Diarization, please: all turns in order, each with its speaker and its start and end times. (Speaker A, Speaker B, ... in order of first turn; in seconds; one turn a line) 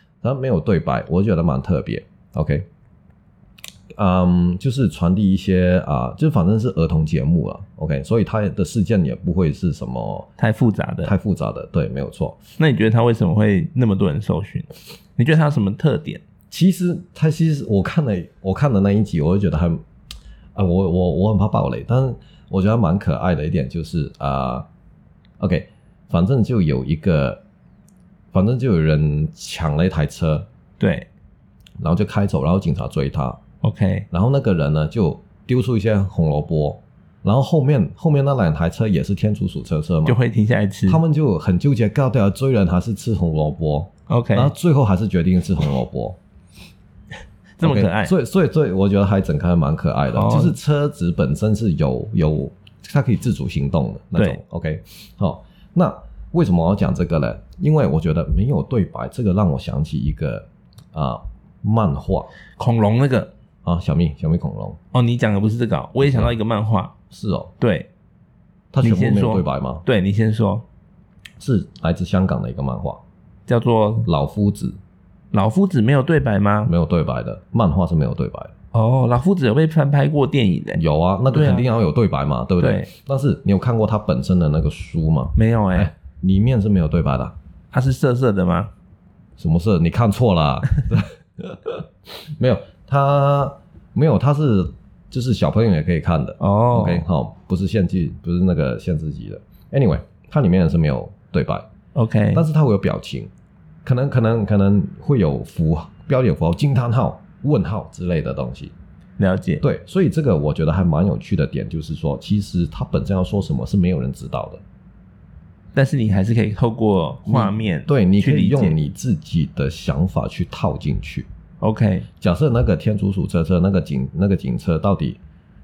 Speaker A: 0.2-2.7
Speaker A: 3.9-10.3
Speaker B: 10.4-11.1
Speaker A: 11.0-12.4
Speaker B: 12.6-16.2
Speaker A: 16.5-19.8
Speaker A: 20.5-24.7
Speaker A: 25.4-27.4
Speaker A: 28.3-30.5
Speaker B: 30.8-31.1
Speaker A: 31.8-33.4
Speaker B: 33.6-34.1
Speaker A: 34.1-40.2
Speaker B: 40.0-41.0
Speaker A: 40.9-46.2
Speaker B: 44.1-44.5
Speaker B: 47.6-48.1
Speaker A: 47.6-62.3
Speaker B: 50.1-50.5
Speaker B: 62.6-63.3
Speaker A: 63.6-64.8
Speaker B: 64.9-66.9
Speaker A: 66.0-66.3
Speaker A: 67.1-67.5
Speaker B: 67.6-67.9
Speaker A: 68.7-69.8
Speaker B: 68.8-70.6
Speaker A: 71.4-73.0
Speaker B: 73.5-74.1
Speaker A: 74.0-74.8
Speaker B: 75.3-76.7
Speaker A: 76.7-78.5
Speaker B: 78.7-81.7
Speaker A: 80.8-87.3
Speaker B: 82.6-82.9
Speaker B: 85.3-85.9
Speaker B: 87.7-88.7
Speaker A: 89.4-101.7
Speaker B: 96.4-97.0
Speaker B: 101.9-102.4
Speaker A: 102.3-103.3
Speaker A: 103.8-108.7
Speaker B: 109.2-109.6
Speaker A: 109.6-114.6
Speaker B: 115.7-118.8
Speaker A: 117.2-121.3
Speaker B: 121.6-122.1
Speaker A: 122.2-125.2